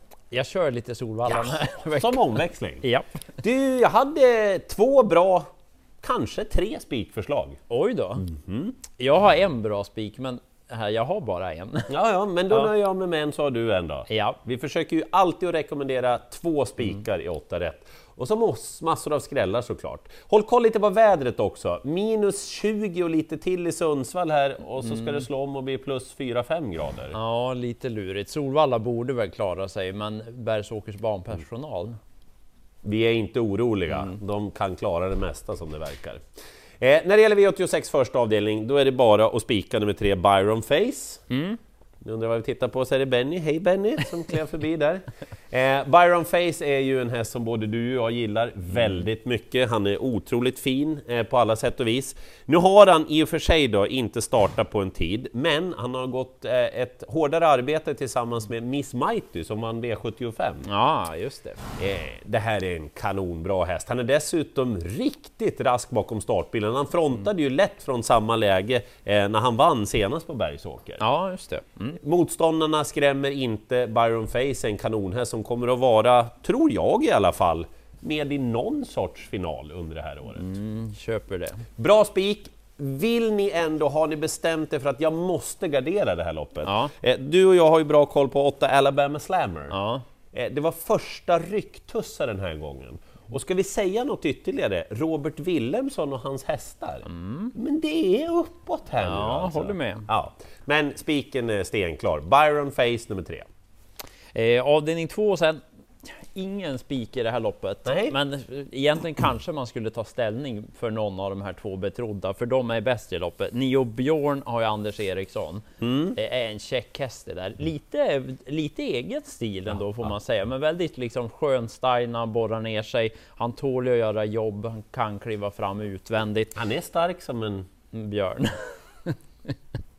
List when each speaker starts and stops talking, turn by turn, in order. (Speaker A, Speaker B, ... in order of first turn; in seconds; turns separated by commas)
Speaker A: 0.3-3.1, Speaker B: 1.3-2.8, Speaker B: 3.4-5.5, Speaker B: 6.0-7.6, Speaker A: 7.7-8.2, Speaker B: 8.2-8.8, Speaker A: 9.0-11.9, Speaker B: 11.9-27.1, Speaker A: 14.1-14.4, Speaker A: 24.8-25.2, Speaker A: 27.1-32.0, Speaker B: 32.8-36.2, Speaker B: 36.8-41.2, Speaker A: 41.3-41.6, Speaker B: 42.0-60.6, Speaker A: 60.6-61.6, Speaker B: 61.8-71.0, Speaker A: 71.0-72.0, Speaker B: 72.0-80.5, Speaker A: 80.3-81.6, Speaker B: 81.8-89.7, Speaker A: 86.6-86.9, Speaker A: 89.7-90.0, Speaker B: 90.3-103.5, Speaker A: 97.1-97.5, Speaker A: 99.0-100.1, Speaker A: 104.3-105.6, Speaker A: 106.2-115.6, Speaker B: 107.9-108.1, Speaker B: 115.8-116.2, Speaker A: 116.1-126.5, Speaker B: 126.5-127.7, Speaker A: 127.9-129.5